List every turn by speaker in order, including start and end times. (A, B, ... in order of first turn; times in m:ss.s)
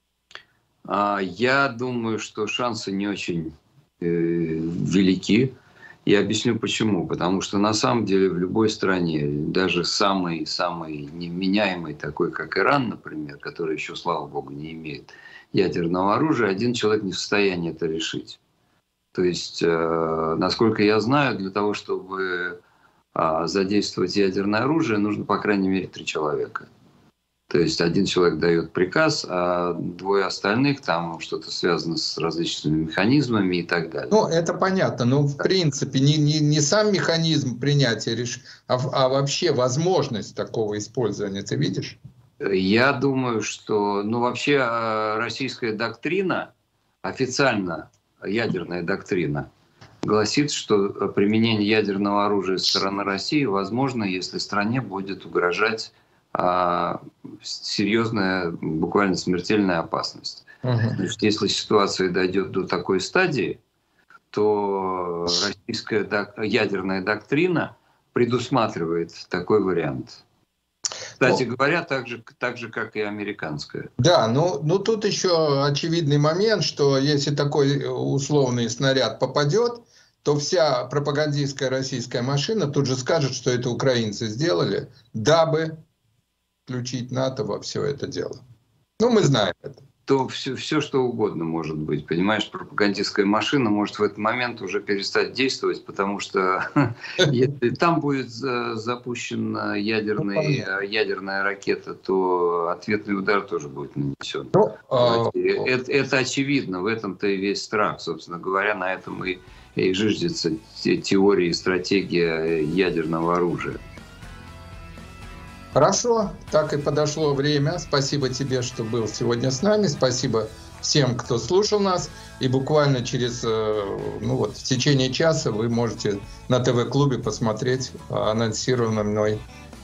0:00.9-0:05.5 A
0:06.0-0:18.4 A
0:19.1-0:22.6 A
0:23.1-0:26.7 A
0:27.5-0:34.1 A
0:34.1-0:42.0 B
0:42.4-0:46.5 A
0:47.0-0:49.5 A
0:50.0-1:03.6 A
1:00.6-1:01.0 B
1:04.3-1:10.2 A
1:11.2-1:13.9 A
1:14.0-1:25.8 B
1:26.7-1:28.4 B
1:29.0-1:29.8 B
1:30.0-1:53.8 A
1:40.3-1:40.6 B
1:44.5-1:45.6 B
1:55.7-2:09.4 B